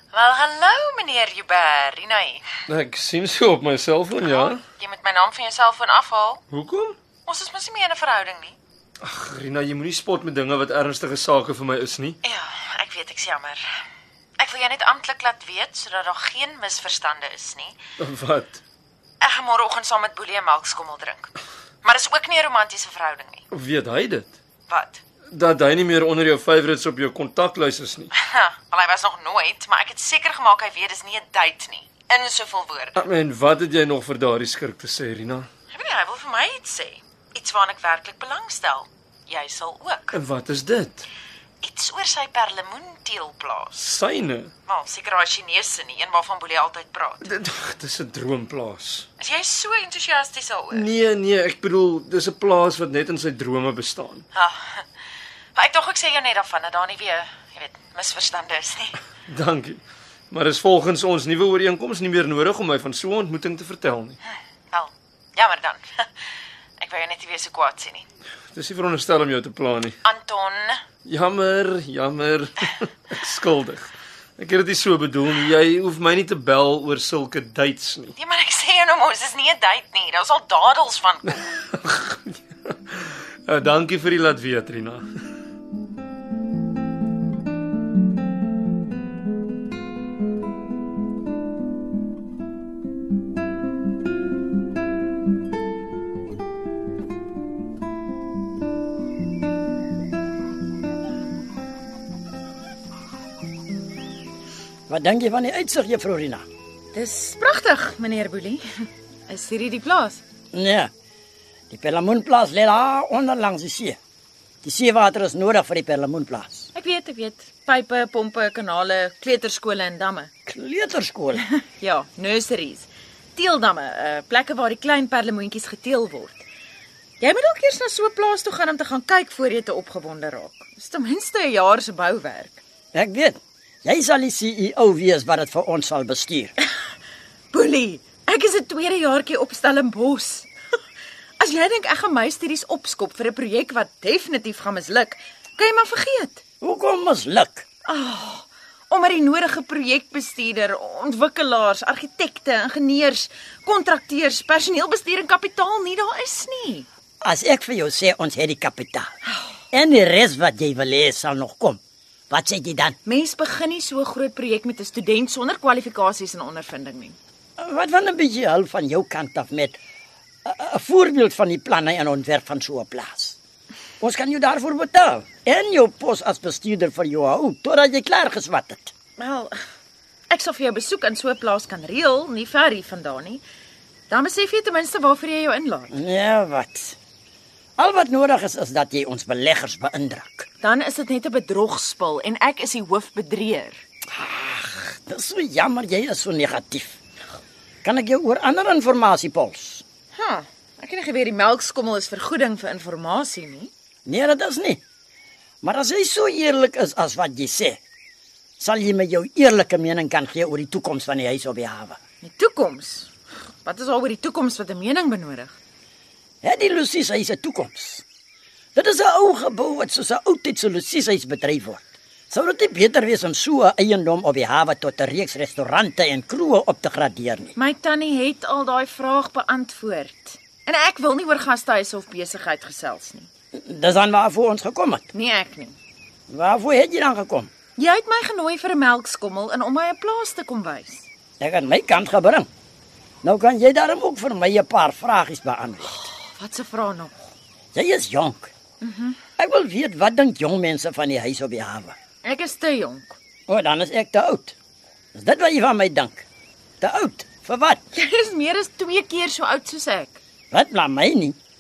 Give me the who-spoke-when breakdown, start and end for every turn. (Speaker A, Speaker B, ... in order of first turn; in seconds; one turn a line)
Speaker A: 0.1-2.5
Speaker B: 2.7-4.6
Speaker A: 4.2-6.4
Speaker B: 6.5-7.0
Speaker A: 7.2-8.6
Speaker B: 9.0-12.2
Speaker A: 12.2-13.6
Speaker A: 14.4-17.8
Speaker B: 18.0-18.6
Speaker A: 19.2-23.4
Speaker B: 23.5-24.3
Speaker A: 24.7-25.0
Speaker B: 25.3-28.1
Speaker A: 28.2-33.0
Speaker B: 33.0-35.5
Speaker A: 35.7-40.2
Speaker B: 40.1-41.1
Speaker A: 41.6-43.8
Speaker B: 43.8-44.5
Speaker A: 44.7-47.4
Speaker B: 47.3-49.0
Speaker A: 49.2-50.9
Speaker B: 50.8-54.2
Speaker A: 54.3-54.8
Speaker A: 55.5-59.0
Speaker B: 59.3-59.8
Speaker B: 60.3-64.2
Speaker A: 64.7-66.1
Speaker A: 66.8-68.1
Speaker B: 68.5-69.9
Speaker A: 70.0-70.8
Speaker B: 71.0-78.1
Speaker A: 78.2-81.5
Speaker B: 81.7-85.1
Speaker C: 104.9-106.4
Speaker A: 106.9-108.6
Speaker A: 109.3-110.2
Speaker C: 110.5-110.9
Speaker C: 111.7-114.0
Speaker C: 114.6-116.7
Speaker A: 116.7-120.3
Speaker C: 120.5-121.4
Speaker A: 121.8-126.4
Speaker A: 127.2-132.6
Speaker C: 132.9-136.5
Speaker A: 137.5-140.5
Speaker A: 141.4-146.4
Speaker C: 146.6-147.7
Speaker A: 147.8-156.8
Speaker C: 157.2-159.1
Speaker C: 159.7-163.0
Speaker A: 163.1-167.2
Speaker C: 167.6-169.8
Speaker C: 170.4-173.4
Speaker C: 174.0-178.9
Speaker A: 179.2-179.5
Speaker A: 180.3-183.4
Speaker A: 184.1-185.9
Speaker C: 185.9-187.0
Speaker C: 187.8-190.5
Speaker A: 190.6-193.8
Speaker C: 194.1-197.0
Speaker C: 197.8-199.8
Speaker A: 200.1-203.7
Speaker C: 204.1-204.8
Speaker C: 205.6-207.8
Speaker C: 208.6-212.0
Speaker A: 212.2-213.1
Speaker A: 213.6-215.6
Speaker C: 216.4-218.1
Speaker C: 218.7-227.6
Speaker A: 227.6-233.3
Speaker C: 233.5-235.1
Speaker A: 235.1-235.8
Speaker C: 236.3-237.5
Speaker A: 237.8-241.1
Speaker C: 241.4-242.5
Speaker C: 243.2-246.0
Speaker A: 245.9-247.1
Speaker C: 247.7-248.5
Speaker A: 248.8-249.2
Speaker C: 249.4-251.9
Speaker A: 252.2-253.2
Speaker C: 253.5-254.6
Speaker C: 255.1-256.2
Speaker C: 256.8-257.8
Speaker A: 257.9-260.2
Speaker C: 260.5-261.4